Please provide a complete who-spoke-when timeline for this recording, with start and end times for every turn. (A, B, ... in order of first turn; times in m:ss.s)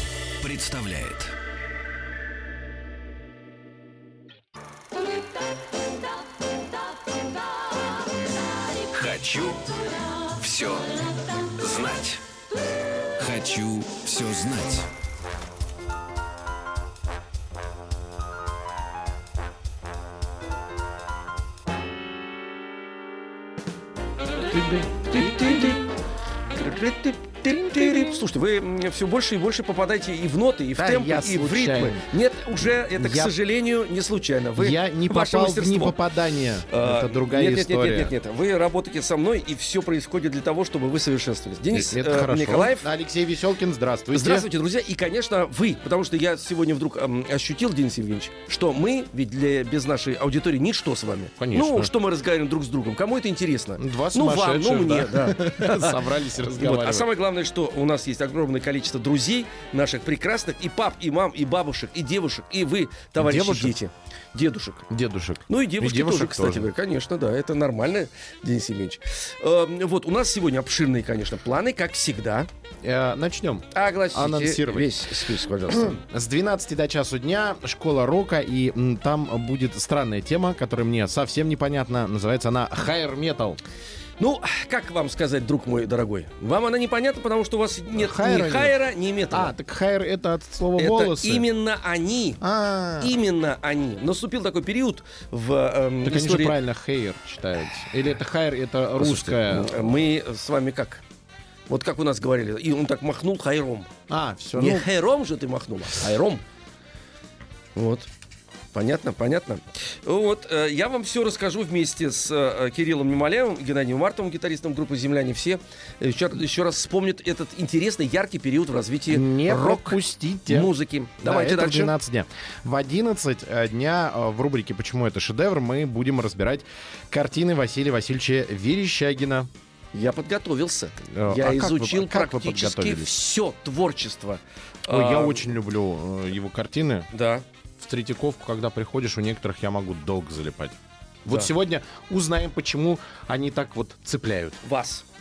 0:00.4-0:01.3 A
0:08.8-0:12.2 A
0:13.2-0:14.9 A
0:24.5-0:25.8 B
0:24.6-0:25.8 C
0:26.5-0:36.0 C
0:27.6-0:28.2 B
0:30.8-0:32.0 B
0:33.0-0:33.3 B
0:34.6-0:38.1 B
0:36.7-0:42.9 C
0:41.7-0:44.5 B
0:44.1-1:04.8 C
0:51.4-0:51.9 B
0:53.8-0:57.1 B
1:03.2-1:03.8 B
1:04.9-1:06.7 B
1:05.5-1:12.5 C
1:12.8-1:23.6 B
1:13.7-1:16.0 C
1:24.2-1:29.5 C
1:28.0-1:28.7 B
1:29.3-1:31.4 B
1:30.8-1:32.4 C
1:32.4-1:33.1 B
1:33.0-1:36.6 C
1:36.0-1:40.0 B
1:39.0-1:41.0 C
1:41.7-1:43.9 C
1:44.1-1:44.9 B
1:44.6-1:46.4 C
1:47.8-1:48.1 C
1:48.7-2:01.9 C
1:59.1-2:09.5 B
2:09.9-2:15.5 C
2:11.1-2:13.2 B
2:14.9-2:17.1 B
2:17.1-2:17.4 C
2:17.8-2:24.6 B
2:24.6-2:25.0 C